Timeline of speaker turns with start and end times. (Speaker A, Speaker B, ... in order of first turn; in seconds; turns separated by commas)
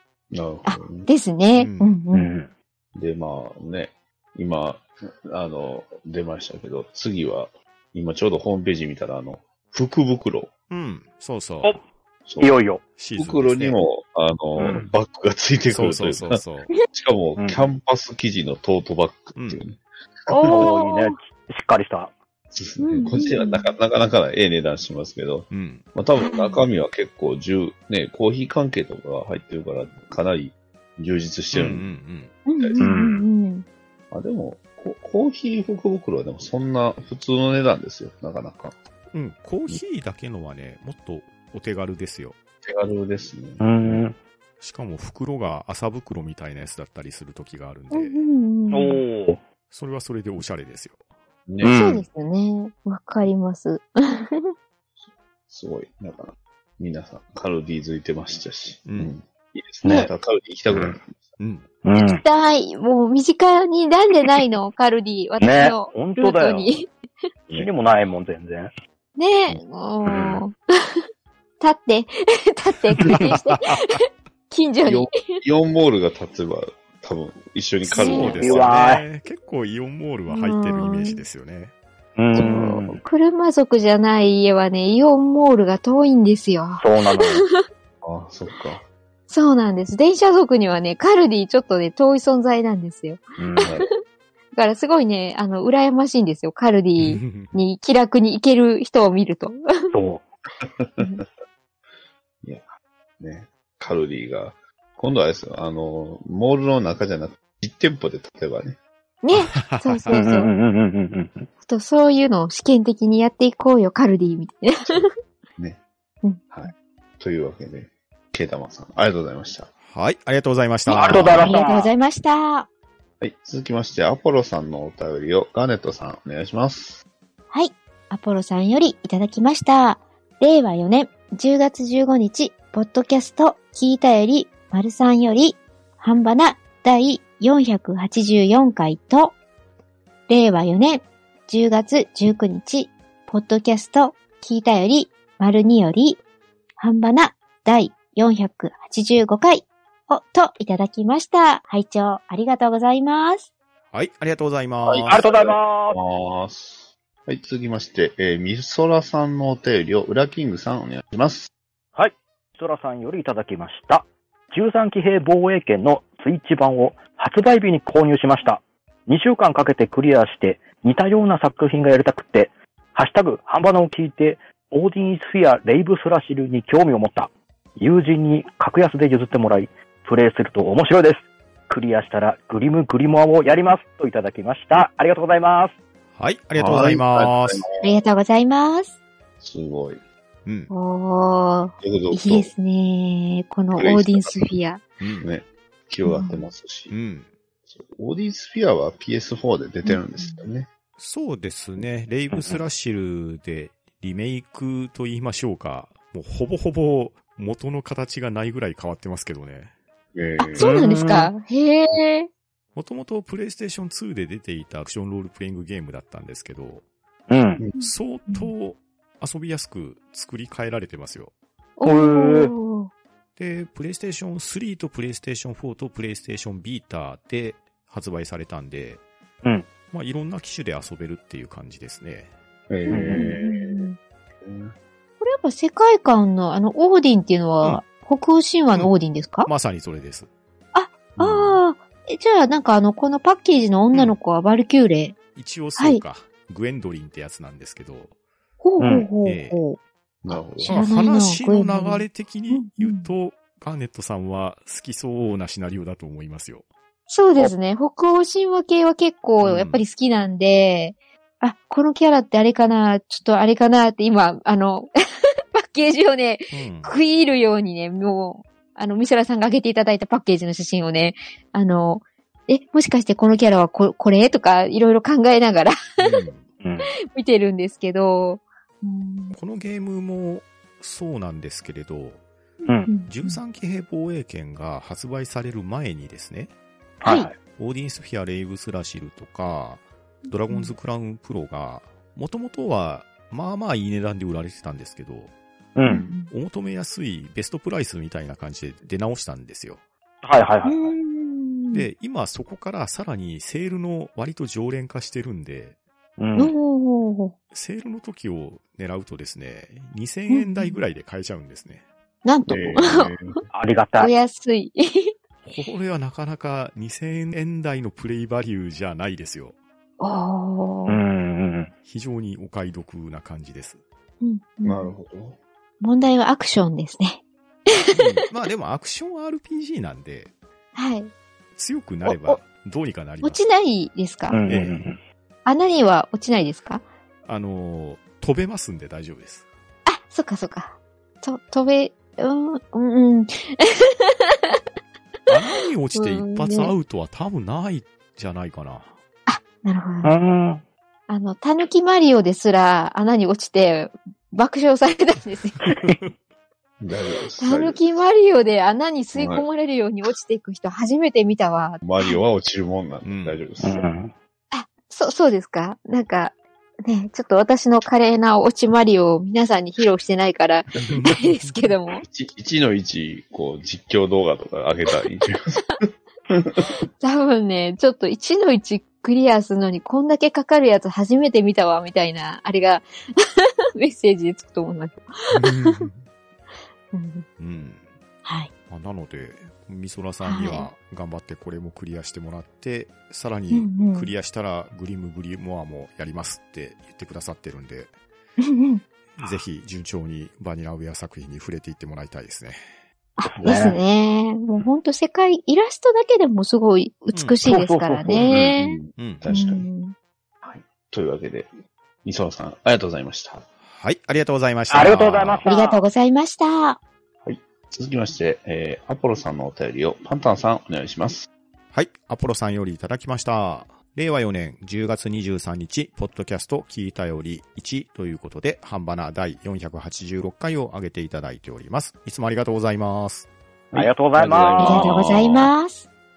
Speaker A: 0.3-1.1, Speaker B: 0.7-2.3, Speaker C: 1.5-1.9, Speaker D: 2.1-2.5, Speaker A: 2.9-10.5, Speaker C: 10.7-11.8, Speaker A: 12.3-12.6, Speaker D: 12.4-12.8, Speaker C: 12.9-13.8, Speaker A: 13.2-20.7, Speaker D: 14.6-14.9, Speaker C: 15.7-16.7, Speaker D: 17.4-17.7, Speaker C: 19.3-19.6, Speaker B: 20.3-21.2, Speaker D: 20.5-22.1, Speaker A: 22.5-31.9, Speaker B: 22.8-23.7, Speaker C: 25.5-25.9, Speaker B: 26.2-26.6, Speaker C: 31.5-32.3, Speaker B: 32.5-33.6, Speaker A: 32.6-33.0, Speaker D: 32.8-33.2, Speaker A: 34.1-38.8, Speaker C: 39.1-42.4, Speaker A: 42.6-44.0, Speaker D: 43.6-44.1, Speaker C: 44.6-48.2, Speaker B: 47.9-49.0, Speaker D: 48.7-49.4, Speaker C: 49.7-51.0, Speaker A: 51.5-51.8, Speaker D: 51.6-52.0, Speaker B: 51.7-54.5, Speaker A: 55.5-61.4, Speaker C: 58.9-59.1, Speaker D: 59.8-60.1, Speaker B: 59.8-60.1, Speaker C: 61.4-61.6, Speaker D: 61.8-62.2, Speaker B: 61.9-66.9, Speaker D: 65.4-66.8, Speaker D: 67.5-68.7, Speaker B: 69.2-70.9, Speaker D: 70.0-70.4, Speaker B: 71.6-75.4, Speaker A: 74.8-78.7, Speaker B: 77.8-78.4, Speaker C: 77.9-81.7, Speaker D: 78.0-79.0, Speaker B: 80.3-81.2, Speaker D: 82.2-83.0, Speaker A: 82.3-83.0, Speaker B: 82.4-87.6, Speaker D: 86.8-87.5, Speaker A: 88.0-88.8, Speaker B: 89.3-93.8, Speaker D: 93.4-93.7, Speaker A: 93.6-93.9, Speaker B: 94.5-99.6, Speaker C: 97.0-97.5, Speaker D: 99.9-100.2, Speaker A: 100.6-101.2, Speaker A: 102.4-102.7, Speaker A: 103.2-108.8, Speaker B: 109.2-110.5, Speaker C: 109.3-110.2, Speaker D: 110.1-111.5, Speaker B: 111.6-115.1, Speaker A: 114.9-115.8, Speaker A: 116.5-119.7, Speaker C: 119.9-121.5, Speaker B: 120.9-122.7, Speaker D: 120.9-121.9, Speaker A: 121.1-121.5, Speaker A: 123.2-127.0, Speaker B: 127.5-139.3, Speaker B: 140.3-146.2, Speaker B: 146.8-153.5, Speaker C: 153.9-155.2, Speaker A: 154.8-161.5, Speaker D: 155.1-156.0, Speaker D: 161.9-185.8, Speaker C: 186.1-187.6, Speaker A: 186.5-187.9, Speaker B: 187.8-188.9, Speaker A: 189.4-190.0, Speaker C: 190.4-190.7, Speaker B: 190.7-194.8, Speaker A: 191.8-192.5, Speaker A: 193.7-194.5, Speaker C: 195.0-195.3, Speaker A: 195.2-196.9, Speaker B: 196.0-196.5, Speaker C: 196.9-197.3, Speaker A: 197.7-200.7, Speaker B: 199.8-200.4, Speaker C: 201.0-209.7, Speaker D: 202.3-202.6, Speaker A: 210.1-210.7, Speaker B: 210.4-212.3, Speaker D: 210.6-211.3, Speaker C: 212.7-216.8, Speaker D: 217.3-217.6, Speaker B: 217.8-218.5, Speaker C: 217.8-221.3, Speaker B: 221.8-222.9, Speaker D: 221.8-222.5, Speaker C: 223.3-229.0, Speaker D: 229.4-229.7, Speaker C: 229.9-232.3, Speaker A: 232.7-233.9, Speaker D: 232.9-233.3, Speaker B: 232.9-234.0, Speaker A: 234.4-234.7, Speaker B: 235.2-239.5, Speaker C: 239.4-240.3, Speaker B: 240.7-245.1, Speaker A: 241.2-241.6, Speaker C: 245.3-248.1, Speaker B: 248.6-249.8, Speaker D: 248.8-249.1, Speaker C: 249.2-249.6, Speaker A: 250.2-250.8, Speaker B: 250.6-253.1, Speaker C: 250.6-256.6, Speaker B: 257.1-264.9, Speaker C: 259.4-259.8, Speaker B: 265.5-276.2, Speaker C: 266.5-266.9, Speaker C: 276.0-276.5, Speaker D: 276.6-276.9, Speaker B: 277.1-279.4, Speaker C: 279.3-282.2, Speaker D: 282.6-282.9, Speaker B: 282.9-283.4, Speaker C: 283.0-286.5, Speaker D: 287.0-287.4, Speaker B: 287.0-287.3, Speaker C: 287.4-295.3, Speaker B: 290.5-290.7, Speaker D: 295.8-296.1, Speaker B: 295.8-296.3, Speaker C: 296.2-299.8, Speaker D: 300.2-300.9, Speaker B: 300.6-301.9, Speaker C: 301.7-305.8, Speaker D: 306.2-306.5, Speaker B: 306.4-307.3, Speaker C: 307.5-311.8, Speaker B: 310.3-310.8, Speaker B: 312.2-313.1, Speaker A: 312.5-313.3, Speaker D: 313.5-314.1, Speaker B: 314.0-315.1, Speaker C: 315.4-319.6, Speaker B: 320.0-321.0, Speaker D: 320.9-321.7, Speaker C: 321.9-323.8, Speaker B: 324.2-324.9, Speaker A: 324.6-325.4, Speaker B: 325.8-327.2, Speaker B: 327.7-328.2, Speaker C: 327.9-330.3, Speaker B: 330.7-331.1, Speaker C: 331.6-333.4, Speaker B: 332.1-332.4, Speaker B: 333.2-334.4, Speaker D: 334.3-335.0, Speaker C: 334.5-334.8, Speaker B: 335.4-336.8, Speaker C: 337.2-339.4, Speaker B: 339.9-344.6, Speaker C: 345.3-348.9, Speaker B: 345.9-346.7, Speaker B: 349.3-350.1, Speaker D: 350.0-350.6, Speaker B: 351.1-355.6, Speaker C: 355.8-356.1, Speaker A: 356.8-357.8, Speaker B: 357.4-362.2, Speaker A: 359.1-359.4, Speaker A: 361.8-363.9, Speaker C: 363.0-363.4, Speaker D: 363.6-364.1, Speaker B: 364.5-372.0, Speaker C: 370.9-371.7, Speaker A: 372.0-376.6, Speaker B: 376.6-385.8, Speaker C: 385.3-386.1, Speaker B: 386.9-387.2, Speaker C: 387.4-387.9, Speaker B: 388.2-388.5, Speaker C: 388.7-397.9, Speaker B: 390.2-390.7, Speaker B: 393.5-394.1, Speaker B: 398.4-398.8, Speaker C: 399.2-402.6, Speaker B: 403.2-409.9, Speaker D: 403.2-403.8, Speaker C: 407.1-407.4, Speaker D: 407.4-408.5, Speaker A: 408.2-409.7, Speaker C: 408.9-409.3, Speaker A: 410.4-411.5, Speaker A: 412.0-413.4, Speaker C: 413.6-415.4, Speaker D: 414.7-415.8, Speaker B: 415.4-416.8, Speaker A: 417.2-421.3, Speaker C: 421.7-433.3, Speaker A: 433.7-435.5, Speaker D: 433.7-434.9, Speaker B: 434.6-435.9